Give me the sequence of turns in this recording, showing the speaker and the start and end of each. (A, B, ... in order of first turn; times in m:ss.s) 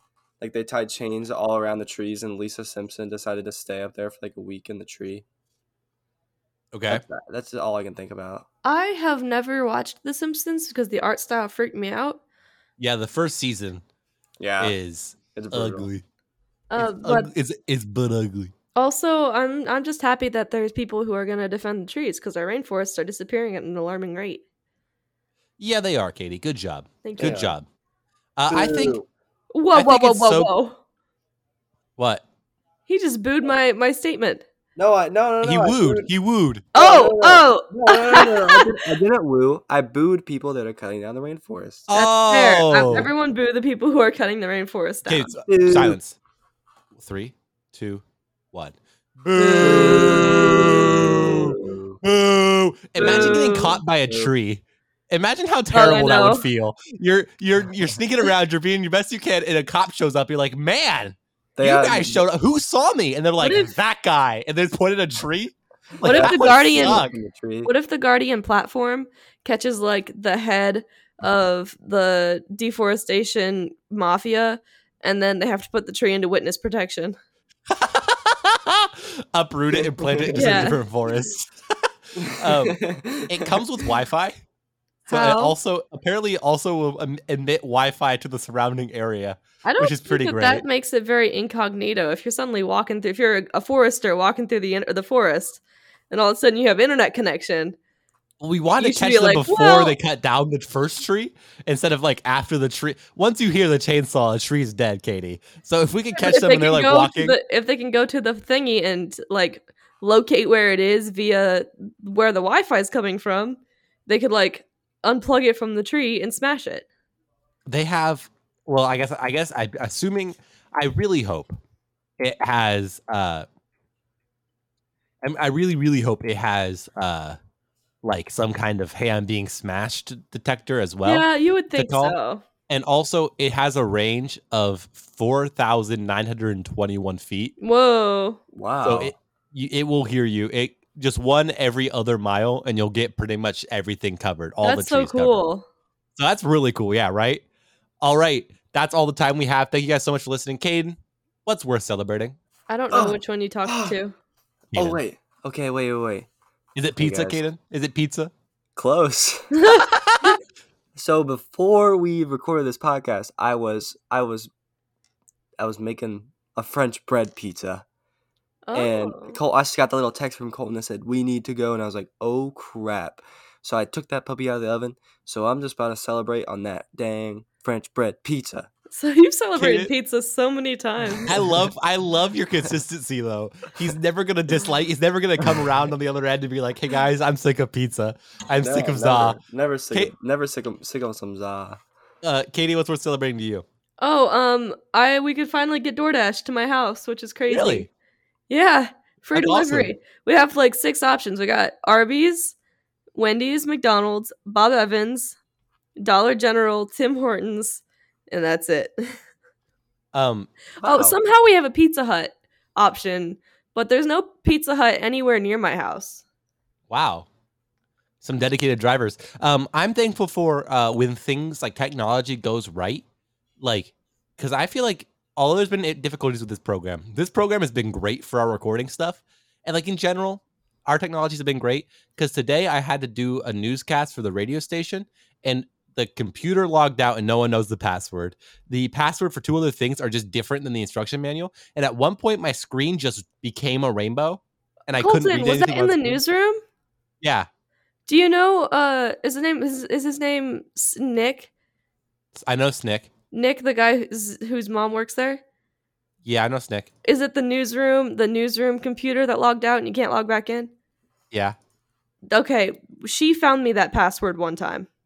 0:00.4-0:05.2 A
0:06.7-0:07.0 B
0:06.9-0:08.4 A
0:08.6-0:12.2 C
0:12.8-0:13.8 B
0:14.4-0:14.8 A
0:14.6-0:16.0 B
0:15.3-0:15.9 A
0:16.7-0:17.3 C
0:16.8-0:18.5 B
0:18.7-0:24.4 C
0:25.6-0:27.6 B
0:27.0-0:27.4 C
0:27.2-0:27.5 A
0:28.4-0:29.0 B
0:28.5-0:29.0 A
0:29.5-0:30.8 C
0:29.7-0:30.5 B
0:32.0-0:32.2 B
0:32.9-0:34.4 C
0:34.8-0:36.1 A
0:35.4-0:36.6 B
0:36.7-0:38.8 C
0:36.7-0:41.9 A
0:41.9-0:43.1 B
0:41.9-0:45.3 C
0:45.0-0:46.2 B
0:45.4-0:46.0 A
0:47.0-1:07.1 B
0:49.4-0:50.3 C
0:49.6-0:52.0 A
0:53.0-0:54.3 A
0:53.0-0:53.8 C
0:55.7-0:56.4 C
1:01.6-1:02.2 A
1:03.4-1:03.7 C
1:06.0-1:07.7 A
1:06.0-1:07.0 C
1:07.6-1:17.2 C
1:17.7-1:24.3 B
1:20.0-1:20.6 A
1:20.3-1:20.8 C
1:22.2-1:23.9 A
1:25.1-1:25.6 C
1:25.1-1:30.6 B
1:29.6-1:37.8 C
1:38.4-1:47.4 B
1:38.8-1:39.9 C
1:46.2-1:56.8 C
1:57.7-2:01.6 B
2:02.2-2:03.4 B
2:05.2-2:07.4 B
2:08.0-2:12.2 B
2:11.0-2:12.4 C
2:12.7-2:17.5 B
2:17.6-2:18.4 C
2:18.5-2:19.1 A
2:18.8-2:25.4 B
2:24.6-2:25.6 C
2:26.2-2:27.4 B
2:28.0-2:32.4 B
2:32.7-2:34.1 C
2:32.9-2:34.0 A
2:34.7-2:35.0 B
2:34.7-2:36.3 A
2:36.7-2:38.3 B
2:37.0-2:37.4 A
2:38.8-2:39.6 A
2:39.5-2:39.9 C
2:39.7-2:40.4 B
2:40.9-2:44.5 A
2:45.6-2:47.8 A
2:48.7-2:49.4 C
2:48.7-2:58.7 A
2:58.9-3:01.3 C
2:59.6-2:59.9 B
3:01.2-3:09.4 B
3:08.6-3:11.8 A
3:12.2-3:13.6 B
3:14.0-3:17.9 C
3:17.5-3:17.9 B
3:18.5-3:22.5 C
3:19.3-3:19.9 B
3:23.1-3:25.4 C
3:26.0-3:29.2 C
3:30.1-3:30.5 B
3:30.8-3:31.2 A
3:30.8-3:36.2 C
3:36.9-3:37.3 B
3:38.2-3:43.0 B
3:43.6-4:06.2 B
4:04.9-4:06.6 C
4:07.2-4:07.5 B
4:08.0-4:11.5 C
4:12.3-4:13.1 B
4:13.3-4:15.4 C
4:16.2-4:16.9 B
4:17.0-4:20.7 C
4:21.3-4:21.6 B
4:22.3-4:24.9 C